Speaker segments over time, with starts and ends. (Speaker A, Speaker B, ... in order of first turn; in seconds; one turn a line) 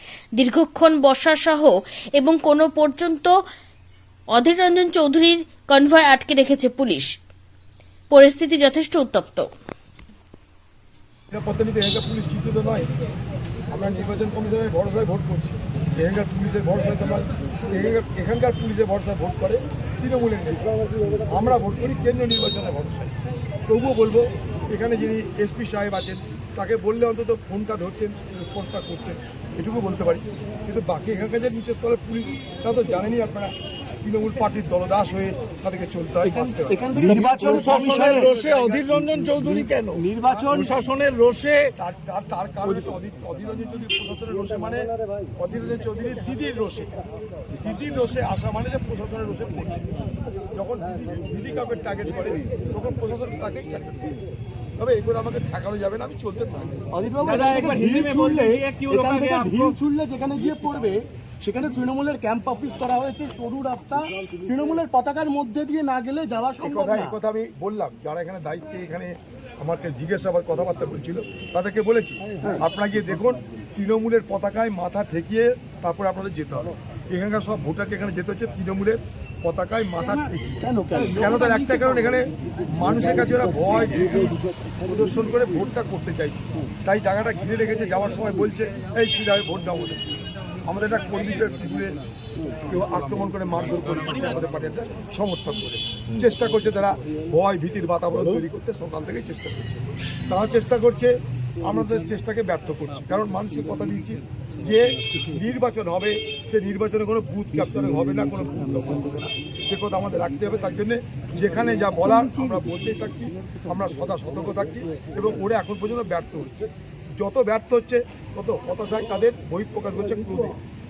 Speaker A: 0.4-3.3
Speaker A: 4.3-7.1
Speaker A: 8.1-9.5
Speaker B: 11.3-12.9
Speaker B: 13.7-20.7
Speaker B: 21.3-23.1
Speaker B: 23.7-37.0
Speaker C: 36.2-38.4
Speaker D: 37.0-41.7
Speaker C: 39.4-40.7
Speaker B: 41.8-46.9
Speaker B: 47.6-49.9
Speaker B: 50.5-54.1
Speaker B: 54.8-56.9
Speaker C: 56.9-67.2
Speaker D: 57.2-59.8
Speaker B: 66.6-90.0
Speaker C: 80.6-81.3
Speaker B: 90.7-92.0
Speaker B: 92.7-99.7
Speaker B: 100.3-116.5
Speaker B: 117.2-120.6